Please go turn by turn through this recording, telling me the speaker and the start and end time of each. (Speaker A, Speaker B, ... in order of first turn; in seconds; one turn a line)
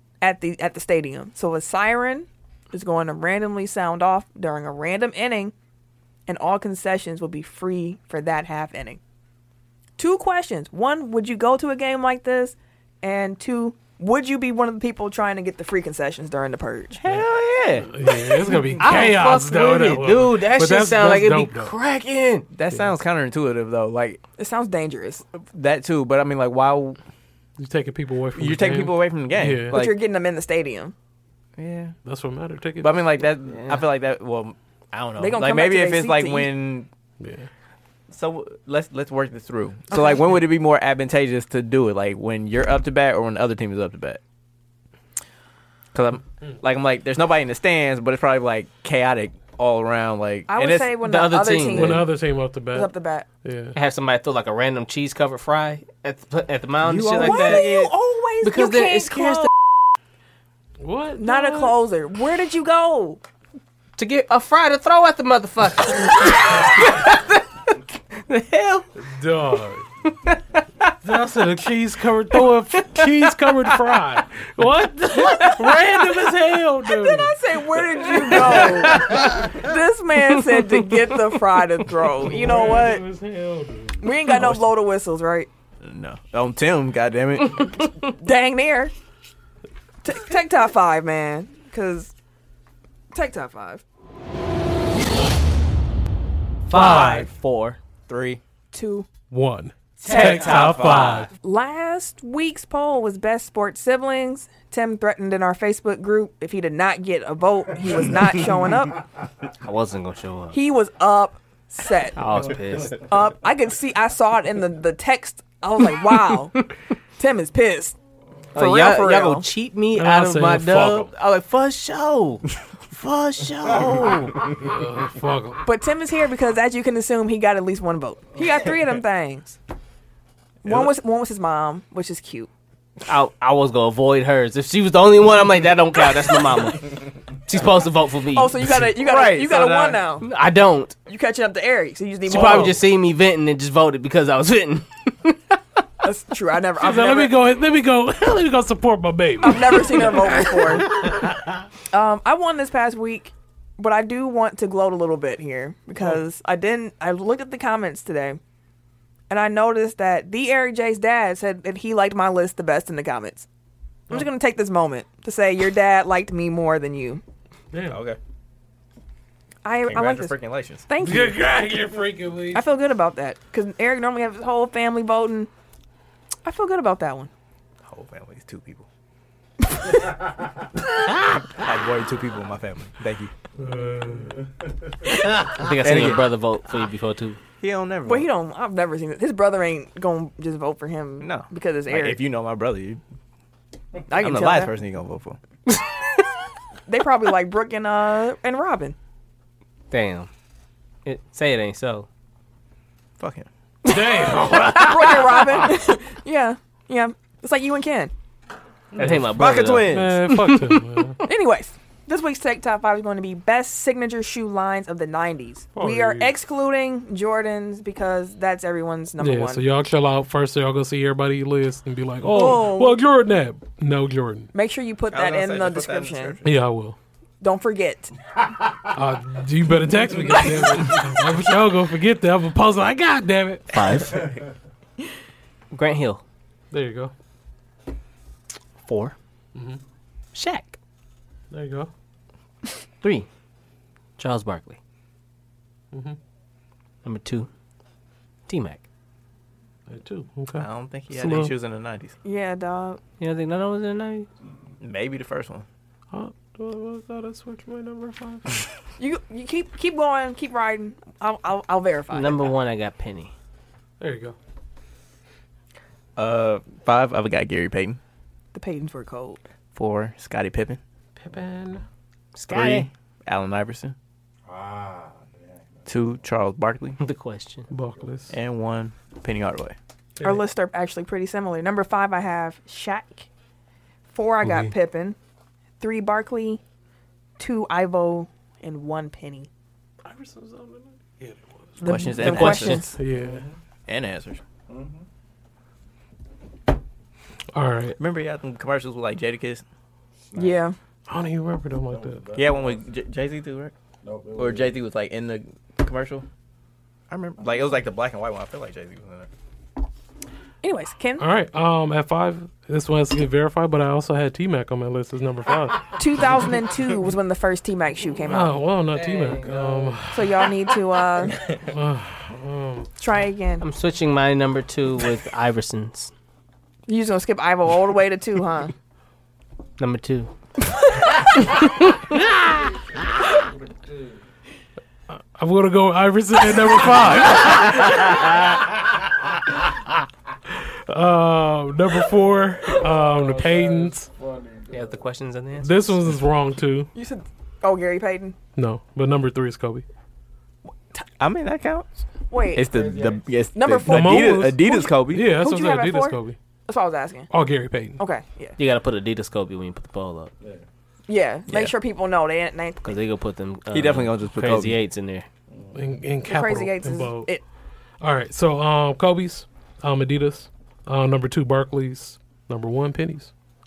Speaker A: 0.2-5.5
Speaker A: 6.3-9.0
Speaker A: 10.0-17.0
Speaker B: 17.0-17.9
Speaker C: 17.9-21.7
Speaker D: 18.4-22.5
Speaker B: 22.5-24.2
Speaker A: 24.4-25.2
Speaker B: 25.4-27.0
Speaker C: 27.6-29.8
Speaker B: 28.3-29.9
Speaker A: 29.7-30.9
Speaker B: 31.6-31.9
Speaker C: 32.0-33.1
Speaker B: 32.8-36.9
Speaker D: 33.5-33.8
Speaker A: 35.2-36.5
Speaker C: 37.2-37.5
Speaker B: 38.1-44.2
Speaker A: 39.9-40.3
Speaker B: 45.9-51.0
Speaker A: 50.5-53.3
Speaker D: 51.0-52.0
Speaker C: 51.7-52.9
Speaker C: 53.4-53.7
Speaker D: 53.7-59.5
Speaker B: 56.8-57.7
Speaker A: 57.2-59.5
Speaker C: 60.8-61.7
Speaker A: 61.2-63.2
Speaker D: 64.0-67.5
Speaker D: 68.1-68.9
Speaker C: 69.0-69.8
Speaker C: 71.0-77.4
Speaker D: 72.8-73.3
Speaker D: 75.1-76.4
Speaker A: 76.9-83.0
Speaker C: 78.0-79.4
Speaker D: 78.1-79.3
Speaker D: 80.6-81.1
Speaker C: 82.1-84.6
Speaker A: 84.0-85.5
Speaker B: 85.8-87.8
Speaker A: 88.0-88.9
Speaker A: 90.0-92.1
Speaker A: 93.1-93.8
Speaker B: 96.7-98.4
Speaker D: 96.7-97.7
Speaker C: 97.0-97.2
Speaker A: 98.7-99.1
Speaker C: 99.3-101.3
Speaker B: 100.0-101.3
Speaker D: 100.0-101.0
Speaker A: 101.4-109.0
Speaker D: 109.6-110.6
Speaker A: 110.5-118.0
Speaker D: 112.2-113.0
Speaker D: 118.5-124.4
Speaker A: 118.5-119.5
Speaker C: 119.9-121.1
Speaker C: 124.5-125.6
Speaker A: 125.6-129.6
Speaker A: 130.6-132.5
Speaker D: 133.0-138.6
Speaker A: 138.3-140.3
Speaker B: 138.9-140.0
Speaker D: 140.2-141.0
Speaker A: 141.1-142.8
Speaker D: 142.2-145.6
Speaker A: 146.0-147.3
Speaker C: 146.8-151.1
Speaker A: 149.4-151.1
Speaker A: 151.9-158.4
Speaker A: 159.3-163.5
Speaker A: 164.1-167.2
Speaker C: 167.7-168.0
Speaker B: 167.9-168.2
Speaker A: 169.6-170.3
Speaker B: 169.8-170.8
Speaker A: 170.9-171.4
Speaker C: 171.0-172.6
Speaker A: 172.5-175.5
Speaker A: 176.4-177.3
Speaker B: 177.8-178.8
Speaker B: 181.2-183.3
Speaker C: 183.6-184.3
Speaker E: 184.0-184.3
Speaker D: 185.3-187.4
Speaker B: 185.4-186.3
Speaker B: 187.6-188.3
Speaker A: 188.0-192.2
Speaker B: 191.2-193.0
Speaker A: 194.1-194.7
Speaker B: 194.1-195.4
Speaker D: 195.7-196.0
Speaker A: 196.9-198.9
Speaker D: 199.9-200.3
Speaker D: 201.0-202.1
Speaker B: 203.2-203.5
Speaker C: 203.8-205.3
Speaker D: 203.9-205.6
Speaker A: 204.6-208.1
Speaker C: 208.9-211.2
Speaker D: 209.0-211.1
Speaker B: 209.3-210.2
Speaker A: 211.2-219.6
Speaker C: 215.7-216.3
Speaker C: 219.2-224.5
Speaker A: 222.2-223.0
Speaker A: 224.5-226.4
Speaker B: 225.1-226.4
Speaker C: 226.4-227.0
Speaker A: 227.4-228.2
Speaker C: 228.9-234.2
Speaker D: 233.7-234.3
Speaker D: 235.7-236.2
Speaker C: 236.7-237.1
Speaker D: 238.8-239.2
Speaker C: 239.5-239.8
Speaker D: 240.3-240.8
Speaker C: 241.5-241.9
Speaker D: 243.0-243.3
Speaker D: 244.2-244.8
Speaker C: 245.9-246.2
Speaker D: 247.0-247.5
Speaker D: 248.5-248.8
Speaker C: 249.9-251.5
Speaker B: 250.6-252.2
Speaker A: 252.2-253.0
Speaker D: 253.2-254.3
Speaker B: 254.8-255.7
Speaker C: 256.1-258.6
Speaker A: 259.0-262.5
Speaker D: 262.1-263.3
Speaker C: 264.0-264.4
Speaker B: 266.2-268.0
Speaker A: 268.5-269.4
Speaker B: 269.7-270.8
Speaker C: 271.2-271.8
Speaker D: 272.3-272.9
Speaker B: 272.5-273.9
Speaker E: 274.4-276.1
Speaker B: 275.9-277.0
Speaker D: 277.0-277.7
Speaker C: 277.7-278.3
Speaker B: 278.3-279.7
Speaker C: 280.2-280.4
Speaker A: 280.2-283.3
Speaker A: 284.1-285.2
Speaker A: 285.8-286.6
Speaker A: 287.4-289.5
Speaker C: 290.0-293.4
Speaker A: 291.8-293.0
Speaker B: 291.8-292.9
Speaker D: 292.2-292.9
Speaker E: 293.1-293.5
Speaker B: 293.9-294.4
Speaker E: 294.7-295.0
Speaker C: 297.5-298.0
Speaker B: 298.0-299.6
Speaker E: 300.3-300.6
Speaker A: 300.3-300.8
Speaker C: 301.1-302.2
Speaker E: 301.9-302.9
Speaker B: 302.4-303.7
Speaker E: 304.0-304.8
Speaker B: 304.3-306.2
Speaker B: 307.1-309.3
Speaker A: 310.6-311.2
Speaker C: 311.2-315.9
Speaker A: 316.0-318.6
Speaker C: 318.3-320.5
Speaker E: 318.8-320.0
Speaker A: 320.1-321.4
Speaker C: 321.7-322.9
Speaker A: 323.0-323.6
Speaker D: 323.6-326.1
Speaker A: 326.9-328.7
Speaker D: 329.8-330.3
Speaker D: 331.5-332.0
Speaker C: 335.1-338.5
Speaker C: 340.6-344.1
Speaker E: 342.7-345.0
Speaker D: 344.7-346.0
Speaker C: 345.6-346.9
Speaker A: 346.9-348.4
Speaker C: 348.6-349.8
Speaker B: 351.2-351.9
Speaker A: 352.3-352.7
Speaker B: 352.5-355.3
Speaker E: 352.6-353.4
Speaker A: 353.5-357.3
Speaker C: 353.9-356.4
Speaker C: 357.3-358.0
Speaker A: 358.0-358.6
Speaker D: 358.6-360.3
Speaker A: 361.1-363.0
Speaker B: 361.5-361.7
Speaker D: 362.8-365.3
Speaker B: 363.7-364.8
Speaker E: 365.5-366.0
Speaker C: 365.7-367.3
Speaker A: 366.2-367.4
Speaker C: 368.0-373.3